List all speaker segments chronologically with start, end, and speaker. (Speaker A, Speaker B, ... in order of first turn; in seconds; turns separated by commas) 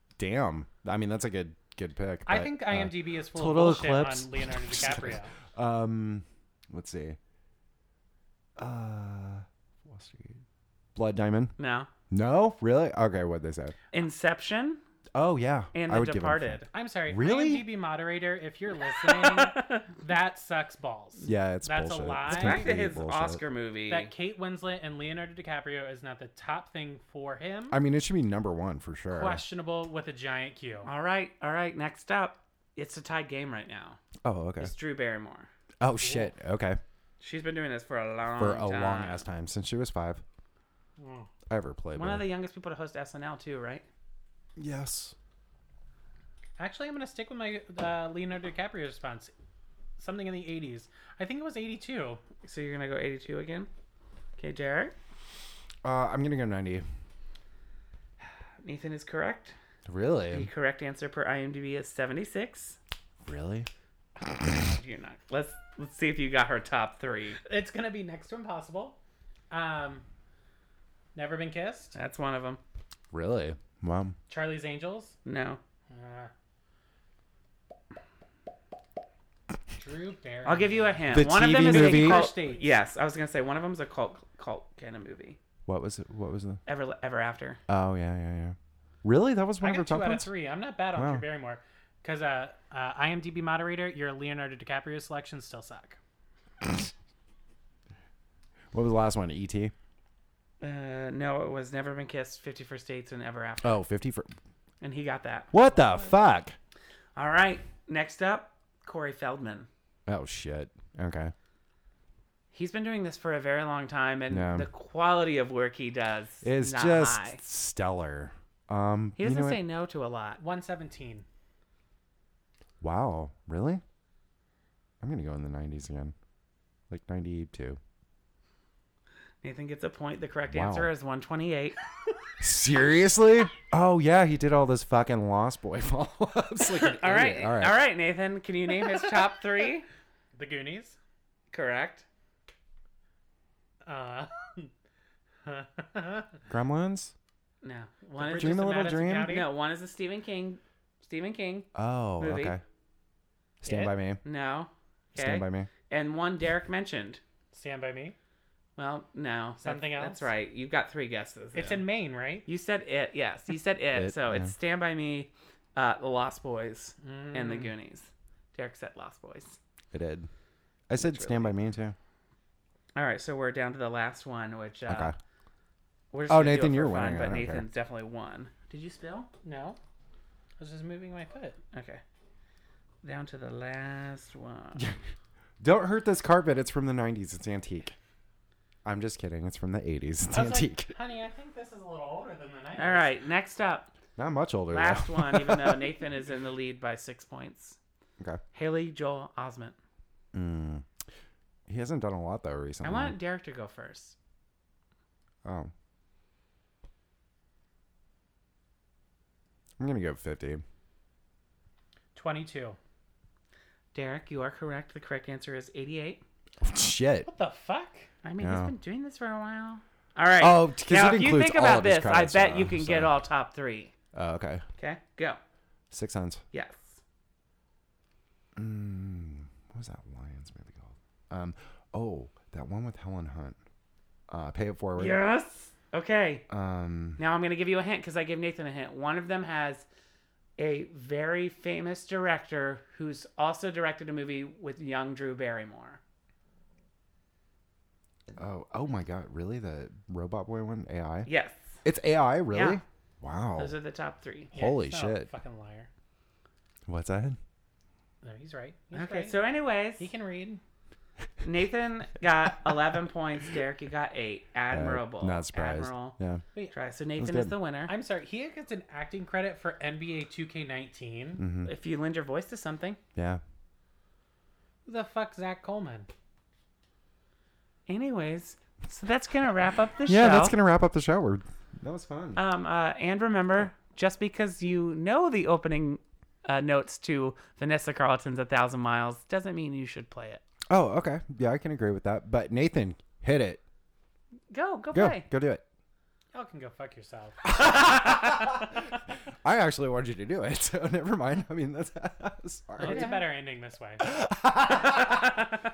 Speaker A: 0.2-7.2, Speaker B: 2.3-5.3, Speaker A: 8.6-10.4, Speaker A: 10.9-11.6, Speaker C: 11.6-11.9, Speaker A: 12.1-13.8, Speaker C: 13.9-14.8, Speaker A: 15.2-17.7, Speaker C: 15.7-16.7, Speaker B: 16.7-22.7, Speaker C: 18.9-19.9, Speaker A: 21.3-23.4, Speaker C: 22.3-24.1, Speaker B: 23.9-27.8, Speaker A: 27.7-29.4, Speaker B: 29.1-30.9, Speaker C: 30.8-34.0, Speaker A: 34.2-34.7, Speaker C: 34.6-35.5, Speaker A: 35.8-36.8, Speaker B: 36.0-36.3, Speaker C: 37.2-39.2, Speaker A: 38.4-40.2, Speaker B: 41.0-41.3, Speaker A: 41.5-42.3, Speaker C: 41.9-43.9, Speaker A: 44.6-45.1, Speaker B: 46.6-49.3, Speaker B: 50.0-52.2, Speaker C: 52.4-53.7, Speaker C: 54.4-55.0, Speaker A: 55.8-56.9, Speaker C: 58.6-59.5, Speaker A: 59.9-60.5, Speaker C: 60.3-62.8, Speaker A: 63.2-63.7, Speaker C: 64.2-67.4, Speaker B: 67.5-69.0, Speaker B: 69.5-70.0, Speaker B: 71.2-72.0, Speaker C: 72.0-72.6, Speaker A: 73.1-74.2, Speaker B: 74.3-75.2, Speaker C: 75.2-75.6, Speaker B: 75.9-76.3, Speaker B: 79.8-82.7, Speaker C: 80.5-85.4, Speaker A: 81.1-82.3, Speaker A: 85.7-86.6, Speaker C: 86.7-87.6, Speaker A: 87.7-90.3, Speaker B: 89.6-96.0, Speaker A: 90.9-91.3, Speaker A: 98.7-99.7, Speaker C: 100.6-103.8, Speaker A: 103.6-104.3, Speaker C: 104.8-105.5, Speaker A: 105.5-106.6, Speaker C: 107.2-109.7, Speaker A: 110.1-111.3, Speaker C: 112.5-117.4, Speaker A: 114.3-114.7, Speaker A: 116.4-119.6, Speaker C: 119.2-120.4, Speaker B: 120.4-121.3, Speaker A: 122.8-123.8, Speaker A: 125.0-126.2, Speaker A: 126.9-127.8, Speaker C: 129.4-131.8, Speaker A: 130.5-130.9, Speaker A: 132.4-137.8, Speaker C: 136.7-139.9, Speaker B: 140.3-141.0, Speaker C: 141.5-142.1, Speaker B: 143.8-144.7, Speaker B: 145.4-146.4, Speaker A: 146.5-147.2, Speaker C: 147.6-151.7, Speaker B: 148.2-149.5, Speaker A: 148.4-149.4, Speaker A: 151.7-152.6, Speaker C: 152.2-152.6, Speaker A: 153.6-154.2, Speaker B: 153.7-153.9, Speaker C: 154.2-157.2, Speaker A: 155.1-155.7, Speaker B: 157.5-158.2, Speaker C: 158.8-161.8, Speaker B: 159.6-160.3, Speaker B: 161.5-162.5, Speaker C: 162.5-169.6, Speaker A: 164.0-164.5, Speaker B: 167.0-167.7, Speaker A: 169.9-170.3, Speaker A: 170.9-172.0, Speaker C: 171.0-171.6, Speaker C: 172.9-175.1, Speaker A: 174.9-175.2, Speaker C: 176.1-179.3, Speaker A: 176.3-177.6, Speaker B: 179.4-179.8, Speaker B: 180.6-181.6, Speaker C: 181.7-182.0, Speaker C: 183.0-184.8, Speaker A: 185.6-187.9, Speaker A: 188.8-190.9, Speaker B: 190.3-193.1, Speaker C: 192.8-193.9, Speaker A: 194.2-195.9, Speaker C: 194.7-197.8, Speaker C: 198.5-199.8, Speaker A: 200.3-200.9, Speaker A: 201.7-203.2, Speaker C: 202.8-204.2, Speaker A: 205.4-205.7, Speaker A: 209.8-210.6, Speaker B: 212.2-212.8, Speaker C: 213.9-216.2, Speaker A: 216.6-217.3, Speaker B: 217.3-218.1, Speaker C: 218.2-223.9, Speaker A: 218.4-218.7, Speaker A: 220.4-223.2, Speaker A: 224.1-224.7, Speaker C: 224.8-225.4, Speaker A: 225.9-226.4, Speaker C: 226.5-227.0, Speaker A: 228.6-233.6, Speaker A: 234.3-235.2, Speaker C: 235.0-236.5, Speaker A: 236.5-237.2, Speaker C: 237.2-239.8, Speaker C: 240.6-246.0, Speaker A: 248.4-251.3, Speaker C: 251.3-251.8, Speaker A: 251.8-253.8, Speaker C: 252.5-252.8, Speaker C: 253.6-254.5, Speaker A: 254.5-255.3, Speaker B: 254.5-255.9, Speaker A: 256.9-257.4, Speaker B: 258.2-259.4, Speaker C: 258.9-260.1, Speaker B: 260.0-260.6, Speaker C: 261.4-266.2, Speaker A: 264.7-266.4, Speaker C: 266.7-267.9, Speaker A: 267.2-267.6, Speaker B: 267.9-271.4, Speaker A: 271.4-271.7, Speaker C: 271.6-273.0, Speaker A: 273.1-273.4, Speaker B: 274.9-276.1, Speaker C: 277.9-280.6, Speaker A: 280.1-282.4, Speaker C: 282.4-290.4, Speaker A: 290.7-293.6, Speaker C: 294.5-295.3, Speaker A: 294.9-295.6, Speaker B: 296.3-297.6, Speaker A: 297.5-303.2, Speaker B: 302.8-304.1, Speaker C: 302.8-303.2, Speaker A: 304.0-305.5